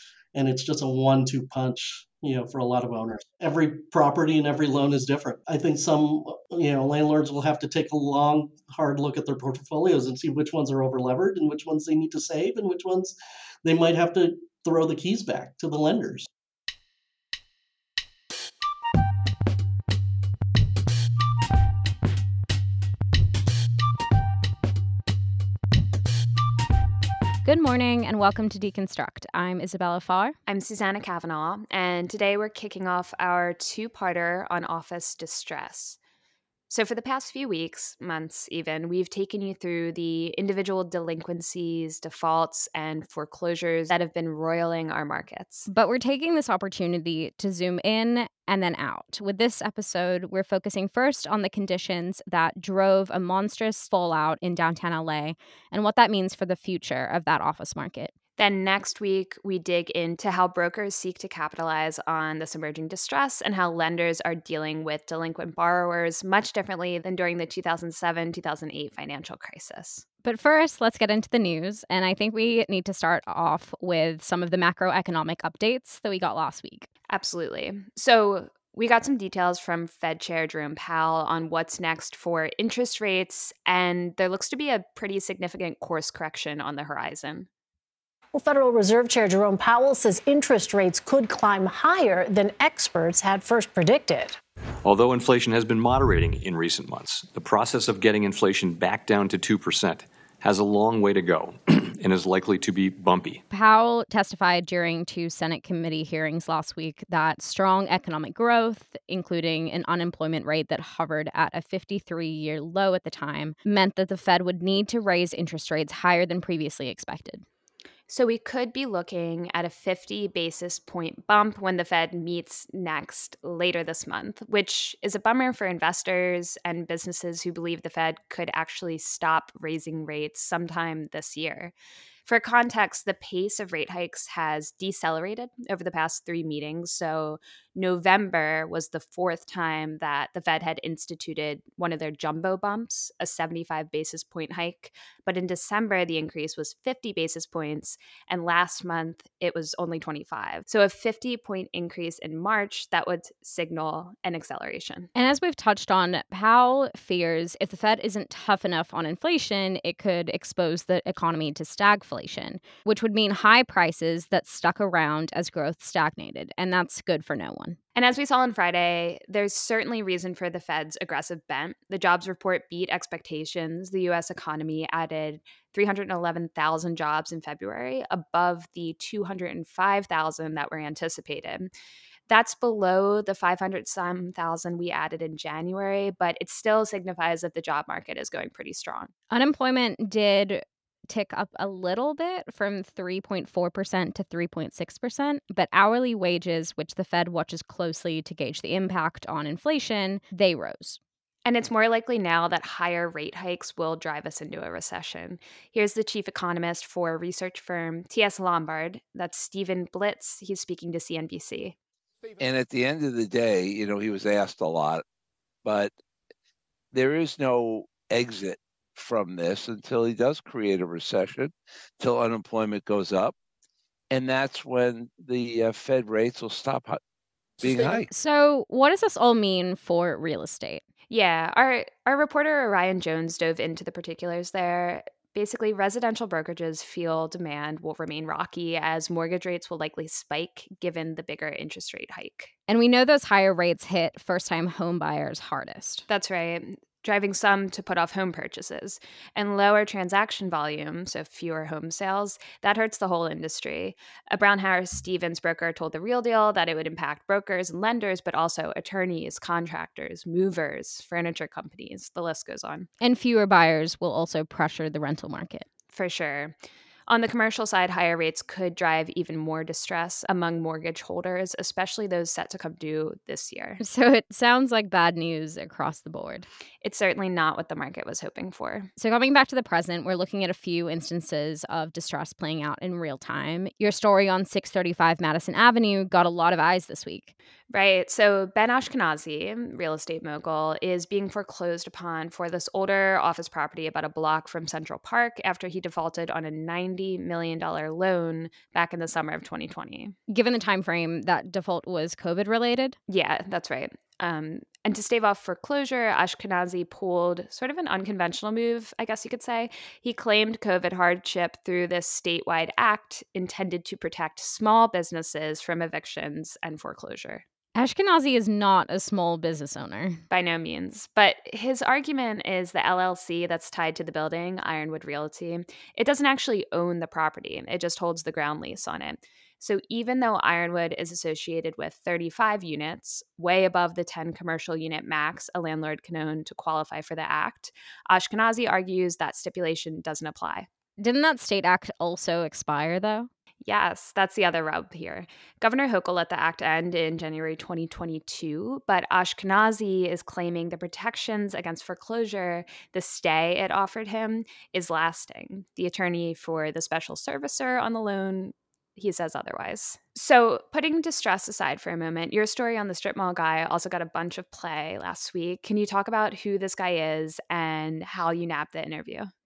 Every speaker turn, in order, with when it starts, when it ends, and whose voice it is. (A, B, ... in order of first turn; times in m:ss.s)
0:00.3-0:16.3 A
0:27.4-0:30.3 B
0:30.5-0:36.0 C
0:36.7-0:45.7 C
0:45.7-0:58.1 B
0:58.4-1:10.0 C
1:10.2-1:16.9 B
1:17.1-1:27.5 C
1:28.3-1:34.4 D
1:34.8-1:43.4 E
1:43.5-1:57.4 B
1:58.1-2:11.7 C
2:12.2-2:35.1 C
2:35.1-2:47.8 B
2:47.9-3:01.7 C
3:02.3-3:09.1 C
3:09.3-3:21.0 B
3:21.4-3:31.8 C
3:32.4-3:35.0 F
3:35.6-3:35.9 F
3:36.9-3:43.4 F
3:44.1-3:47.0 F
3:47.6-3:48.1 F
3:48.1-3:50.8 B
3:51.1-4:02.5 C
4:02.7-4:06.0 B
4:06.1-4:22.9 C
4:23.0-4:25.7 B
4:25.9-4:26.5 C
4:27.1-4:33.8 C
4:33.8-4:36.5 B
4:36.8-4:38.9 C
4:39.0-4:47.3 B
4:47.7-5:00.1 C
5:00.3-5:03.0 B
5:03.1-5:17.4 C
5:17.8-5:20.2 B
5:20.3-5:40.7 C
5:41.0-5:43.3 B
5:43.6-6:09.3 C